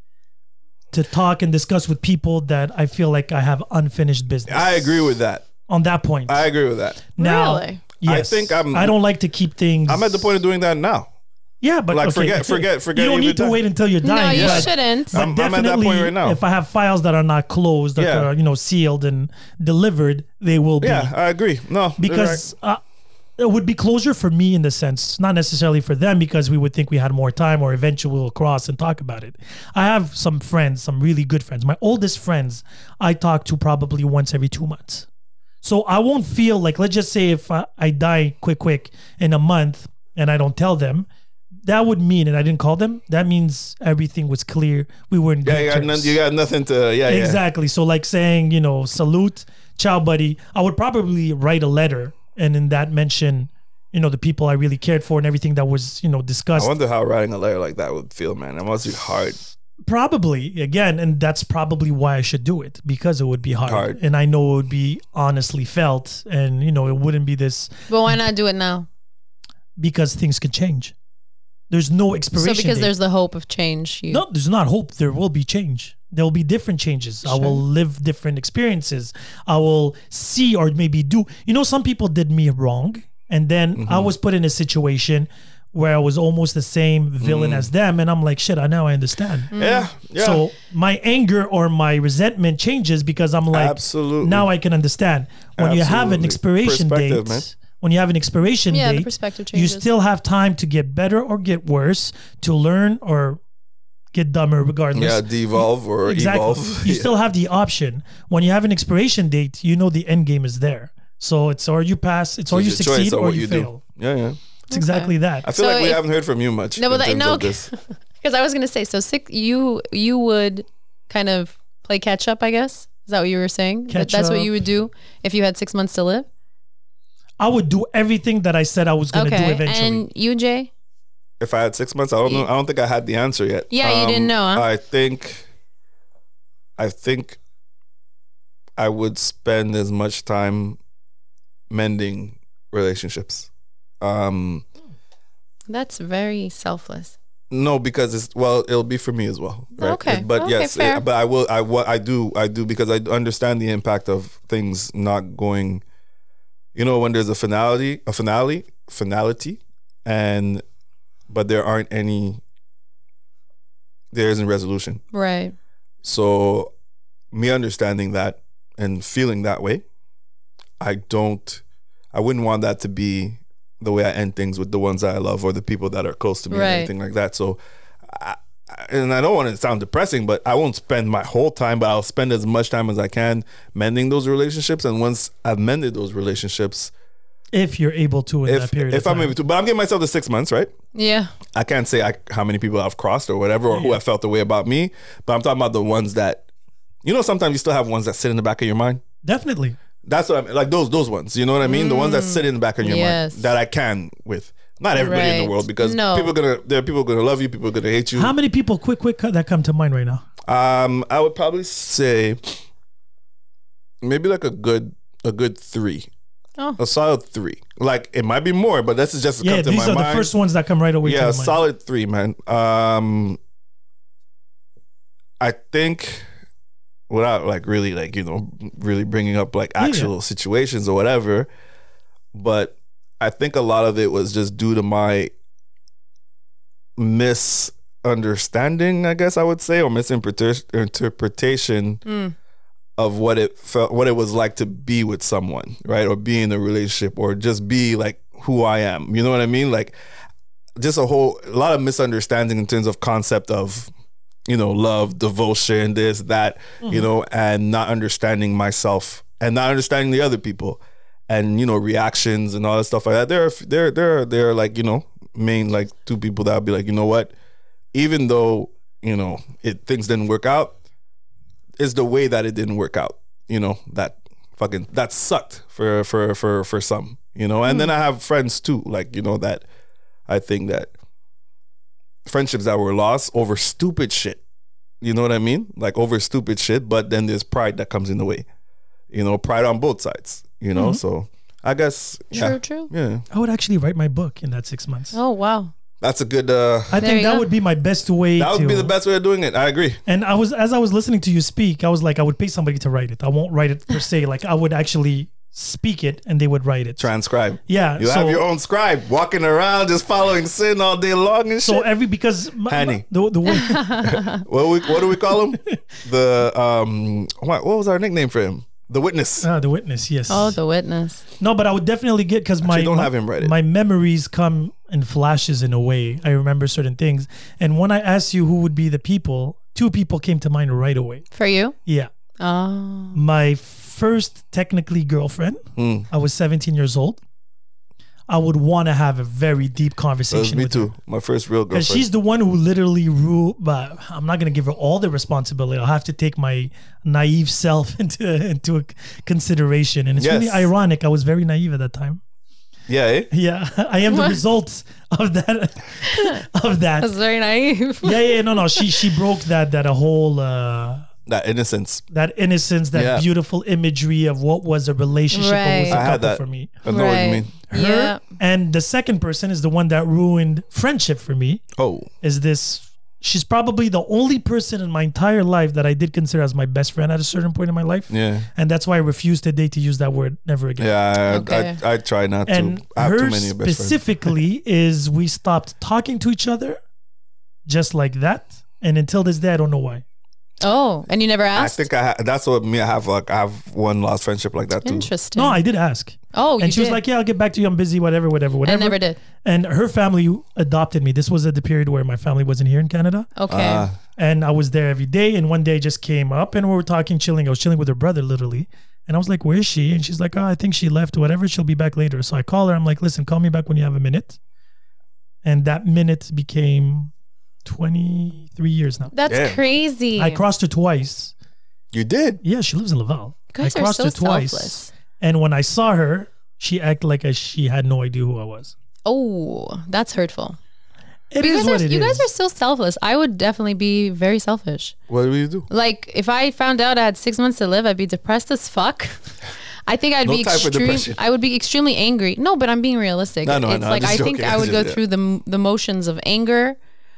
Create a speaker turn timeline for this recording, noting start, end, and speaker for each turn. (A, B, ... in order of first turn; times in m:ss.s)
0:00.9-0:05.1 A
0:04.5-0:05.5 B
0:05.7-0:06.5 A
0:06.3-0:07.1 B
0:07.2-0:10.3 A
0:07.2-0:07.8 C
0:08.0-0:08.9 B
0:09.9-0:11.1 B
0:11.6-0:21.1 A
0:11.9-0:13.6 B
0:14.0-0:15.2 C
0:14.3-0:16.4 B
0:18.0-0:18.3 B
0:20.8-0:22.4 B
0:22.0-0:22.8 A
0:23.4-0:35.0 A
0:35.6-0:41.1 A
0:41.6-0:46.2 A
0:45.4-0:47.4 B
0:47.0-0:56.7 A
0:56.5-0:59.4 B
0:59.8-1:08.2 A
1:03.6-1:04.0 B
1:07.9-1:08.9 C
1:09.8-1:10.9 A
1:11.7-1:12.9 A
1:12.4-1:14.2 C
1:14.1-1:29.5 A
1:17.2-1:17.6 C
1:23.8-1:24.1 B
1:27.2-1:27.7 B
1:29.5-1:29.9 C
1:29.5-1:30.4 B
1:30.2-1:43.4 A
1:33.5-1:34.5 B
1:35.6-1:37.4 B
1:38.7-1:39.9 C
1:44.1-1:53.8 A
1:44.9-1:47.1 B
1:52.5-1:54.4 B
1:54.7-1:56.0 C
1:54.7-1:55.4 A
1:55.4-1:57.7 B
1:56.8-2:06.3 C
2:03.9-2:04.5 A
2:07.4-2:10.0 A
2:09.1-2:10.7 C
2:11.4-2:15.5 B
2:13.7-2:14.6 C
2:16.8-2:17.4 B
2:18.8-2:20.8 B
2:21.7-2:23.5 B
2:24.0-2:24.6 B
2:25.7-2:27.2 C
2:27.5-2:35.8 B
2:29.8-2:31.0 C
2:36.7-2:40.6 B
2:41.3-2:42.4 B
2:44.1-2:45.0 B
2:45.1-2:45.5 C
2:46.0-2:46.7 B
2:47.3-2:49.8 B
2:50.8-2:51.6 B
2:52.1-3:06.9 B
2:56.5-2:56.9 C
3:07.5-3:09.3 A
3:08.4-3:10.7 B
3:10.9-3:11.3 C
3:11.5-3:16.4 B
3:13.7-3:14.0 A
3:17.0-3:19.0 B
3:19.2-3:19.8 A
3:20.0-3:28.3 B
3:21.6-3:23.5 C
3:25.0-3:26.3 C
3:28.1-3:30.2 A
3:30.5-3:32.6 B
3:34.0-3:36.1 B
3:36.8-3:40.3 B
3:39.4-3:41.6 A
3:41.0-3:43.4 B
3:45.4-3:46.2 B
3:47.1-3:51.5 B
3:49.8-3:50.1 A
3:52.3-3:55.3 B
3:57.0-4:02.0 B
4:02.0-4:02.3 C
4:03.0-4:09.9 B
4:10.8-4:13.9 B
4:14.5-4:27.3 B
4:27.9-4:30.8 B
4:31.8-4:39.6 B
4:40.3-4:40.9 B
4:42.2-4:44.4 B
4:45.0-4:48.4 B
4:49.1-4:53.2 B
4:52.3-4:52.9 C
4:53.3-4:55.2 A
4:55.1-4:55.7 C
4:56.0-4:57.0 B
4:56.9-4:58.9 A
4:57.0-4:57.4 C
4:58.4-5:00.0 B
5:00.1-5:07.1 A
5:07.0-5:11.9 B
5:07.7-5:08.4 A
5:11.6-5:13.9 A
5:12.7-5:13.0 B
5:13.5-5:14.4 C
5:14.1-5:19.5 B
5:19.4-5:20.6 A
5:20.3-5:21.2 C
5:21.4-5:31.2 A
5:22.6-5:23.5 B
5:31.3-5:31.7 C
5:32.4-5:33.2 C
5:33.1-5:37.2 A
5:35.8-5:36.1 B
5:38.3-5:40.9 A
5:40.3-5:42.1 B
5:41.7-5:52.2 A
5:50.2-5:50.7 B
5:52.9-5:53.3 B
5:53.3-5:57.1 A
5:54.1-5:54.4 C
5:56.1-5:56.4 C
5:57.0-5:59.0 C
5:58.0-6:01.0 A
6:01.3-6:02.0 B
6:02.1-6:06.8 A
6:02.9-6:03.3 B
6:05.3-6:06.0 C
6:05.9-6:07.5 B
6:06.9-6:08.2 C
6:07.7-6:11.6 A
6:11.8-6:12.1 B
6:12.2-6:20.9 A
6:18.1-6:18.5 B
6:20.8-6:24.3 B
6:21.3-6:21.8 C
6:22.5-6:26.8 A
6:27.6-6:30.0 A
6:30.6-6:31.8 C
6:31.5-6:35.1 B
6:34.8-6:35.6 C
6:35.3-6:43.3 A
6:36.3-6:37.0 C
6:38.6-6:39.2 C
6:43.4-6:43.9 C
6:43.5-6:44.0 B
6:44.2-6:54.4 A
6:55.4-6:57.1 A
6:57.6-6:59.1 A
6:59.1-7:00.4 C
6:59.3-6:59.6 B
7:00.2-7:01.3 A
7:01.9-7:02.4 B
7:02.4-7:08.7 A
7:03.5-7:04.9 C
7:09.0-7:10.6 C
7:11.3-7:12.3 A
7:11.4-7:15.0 C
7:15.1-7:15.7 B
7:15.7-7:19.2 C
7:19.9-7:26.8 C
7:20.2-7:21.2 B
7:23.4-7:25.0 B